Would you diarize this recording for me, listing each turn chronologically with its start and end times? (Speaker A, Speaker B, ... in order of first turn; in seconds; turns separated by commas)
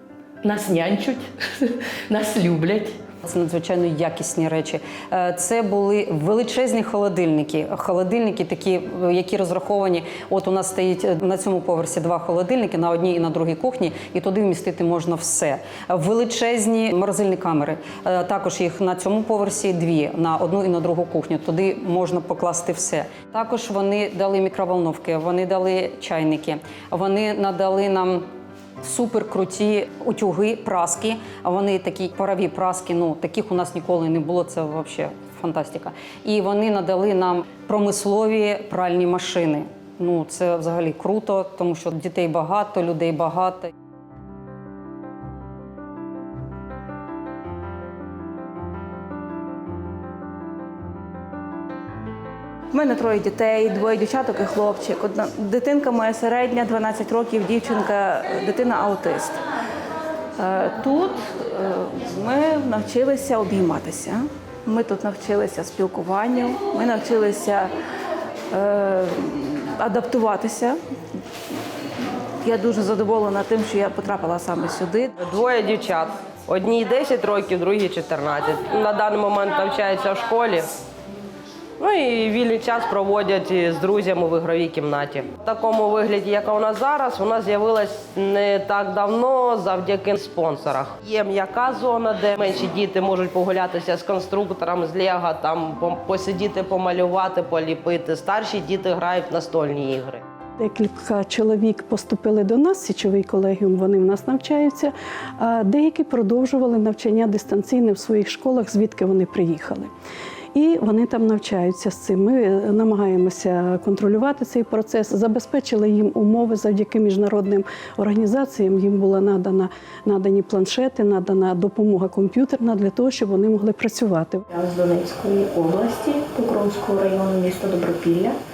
Speaker A: 0.4-3.0, Speaker B: 3.2-28.3, Speaker B: 28.8-43.7, Speaker C: 52.7-59.4, Speaker C: 60.4-67.7, Speaker C: 68.5-70.8, Speaker C: 72.4-75.1, Speaker D: 75.2-80.7, Speaker D: 81.8-100.2, Speaker E: 100.6-109.9, Speaker E: 110.5-124.4, Speaker F: 124.5-128.4